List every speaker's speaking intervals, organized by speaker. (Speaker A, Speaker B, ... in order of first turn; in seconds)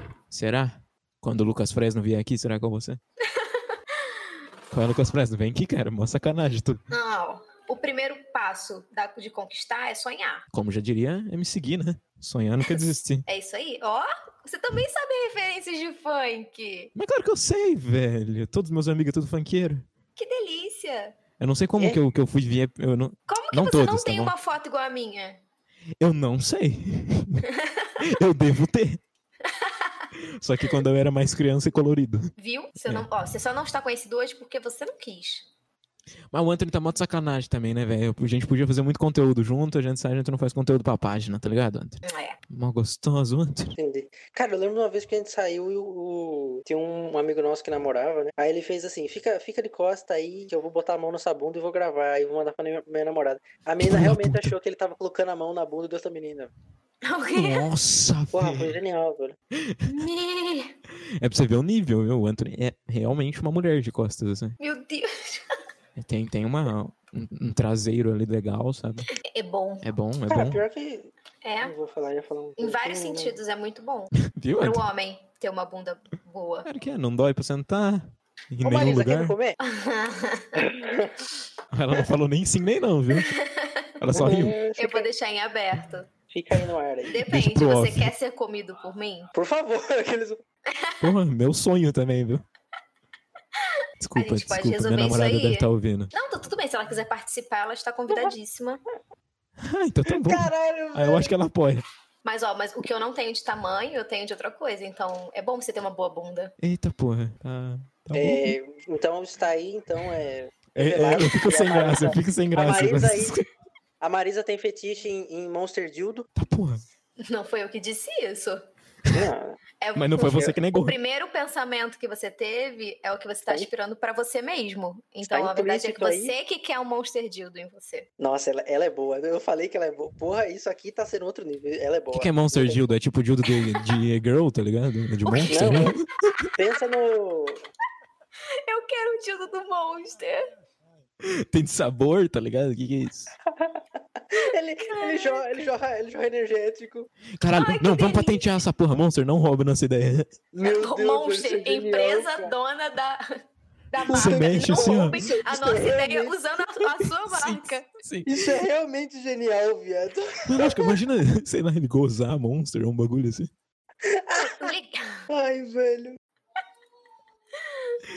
Speaker A: 0.3-3.0, 4.7-6.8, 10.5-13.2, 16.9-19.9, 21.4-24.3, 26.0-27.4, 28.0-29.0, 30.2-32.3, 36.3-43.7, 53.8-54.5, 57.3-58.8, 59.5-59.9, 61.0-64.6, 66.0-69.1, 69.8-70.6, 74.2-74.9, 76.7-79.3, 81.7-83.4, 84.0-84.6, 87.2-88.1, 91.0-92.4, 94.0-96.1, 99.6-101.8, 106.6-108.5, 110.7-113.5, 116.3-116.8, 119.9-121.0, 132.1-136.5, 141.2-143.3, 147.4-150.4, 154.1-155.2, 157.0-158.6, 160.5-163.5
Speaker B: 3.3-4.2, 6.9-10.4, 13.3-16.9, 20.1-21.1, 23.3-25.4, 27.5-27.9, 29.4-30.1, 32.4-35.5, 42.0-42.4, 57.0-57.7, 59.9-60.8, 64.6-65.5, 69.1-69.8, 71.4-71.7, 72.6-76.7, 79.6-80.6, 83.1-86.1, 87.1-89.3, 90.7-91.1, 93.6-98.8, 102.2-106.5, 117.2-118.6, 119.8-128.1, 135.2-136.0, 138.6-140.5, 144.9-145.4, 147.5-148.4, 150.6-157.9, 164.5-165.3, 167.6-168.0
Speaker C: 43.8-56.5, 58.3-59.4, 70.3-71.1, 71.6-73.4, 78.6-79.6, 80.5-81.2, 84.1-85.1, 86.3-87.2, 89.3-90.4, 100.0-101.3, 108.1-113.4, 114.0-116.3, 119.1-119.6, 125.2-126.3, 128.2-132.8, 135.5-135.9, 136.5-137.6, 143.5-147.1, 150.5-152.5, 154.1-156.4, 158.2-161.0, 164.0-164.7, 165.3-166.2